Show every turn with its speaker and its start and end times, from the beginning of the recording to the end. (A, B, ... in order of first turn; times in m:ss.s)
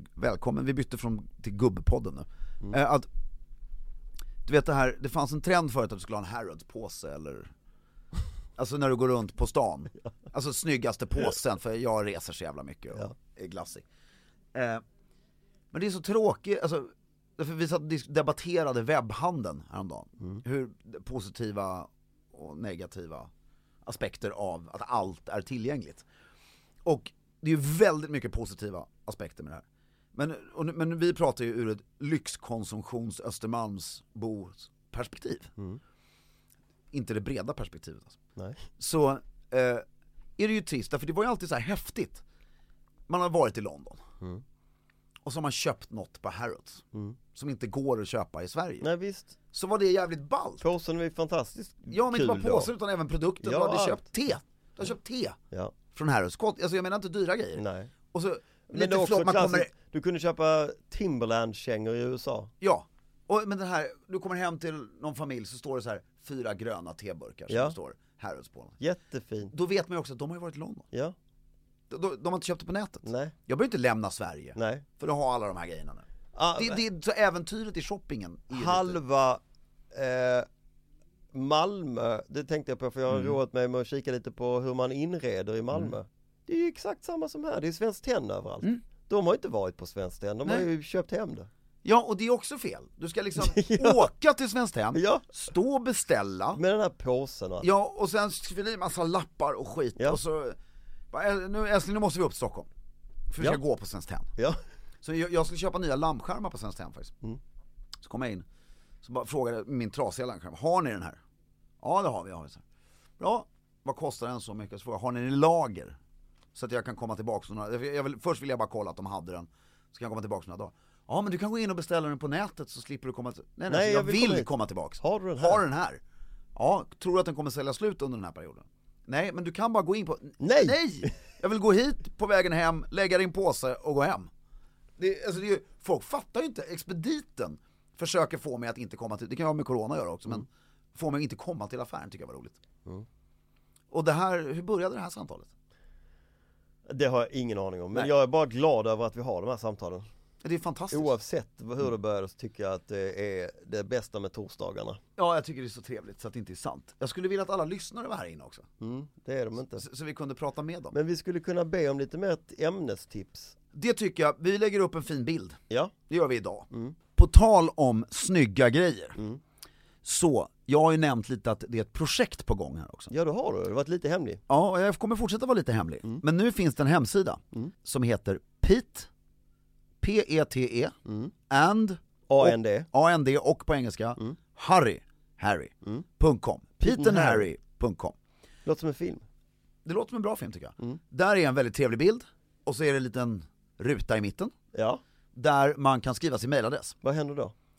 0:00.1-0:03.1 A
0:04.4-0:07.5 A
0:08.6-0:13.8 A
0:14.5-0:14.8 A
0:15.7-0:23.3 A
0:23.8-0:26.0 A
0:26.8-0:35.5 A
0:36.9-0:38.2 A
0:38.4-0:38.6 B
0:38.8-0:39.8 A
0:40.4-0:42.2 A
0:43.1-0:44.0 A
0:45.2-0:48.9 A
0:48.8-0:49.4 B
0:49.5-0:50.6 A
0:50.6-0:52.7 B
0:51.9-0:55.4 A
0:53.4-0:54.0 B
0:55.9-0:59.7 A
0:57.6-0:57.9 B
0:58.7-1:02.5 B
1:02.6-1:08.8 A
1:07.5-1:07.8 B
1:08.8-1:09.5 B
1:09.5-1:10.9 A
1:11.9-1:19.0 A
1:13.0-1:13.3 B
1:14.6-1:14.8 B
1:16.3-1:16.8 B
1:18.5-1:19.4 B
1:19.9-1:20.5 B
1:21.3-1:31.5 B
1:23.1-1:23.4 A
1:31.8-1:36.6 A
1:33.4-1:34.1 B
1:34.9-1:35.3 B
1:36.5-1:37.7 B
1:37.6-1:40.6 A
1:41.1-1:42.7 A
1:43.3-1:44.3 A
1:45.0-1:47.1 A
1:48.0-1:48.4 A
1:49.0-1:51.2 A
1:51.8-1:52.6 A
1:53.2-1:56.0 A
1:56.5-2:06.0 A
2:03.7-2:05.6 B
2:06.5-2:14.3 A
2:10.4-2:11.1 B
2:15.0-2:22.6 A
2:23.9-2:25.5 A
2:26.9-2:30.1 B
2:30.4-2:31.1 A
2:30.9-2:35.0 B
2:35.2-2:38.7 A
2:38.8-2:39.8 B
2:39.8-2:40.9 A
2:40.9-2:43.6 B
2:43.7-2:49.2 A
2:46.7-2:47.0 B
2:49.2-2:49.4 B
2:50.0-2:53.1 A
2:53.1-2:54.4 B
2:54.5-2:59.1 A
3:00.0-3:00.9 A
3:01.0-3:01.3 B
3:01.5-3:08.2 A
3:02.3-3:02.9 B
3:06.8-3:07.5 B
3:08.6-3:09.2 B
3:09.8-3:14.5 A
3:14.7-3:15.0 B
3:15.3-3:17.0 A
3:17.0-3:17.5 B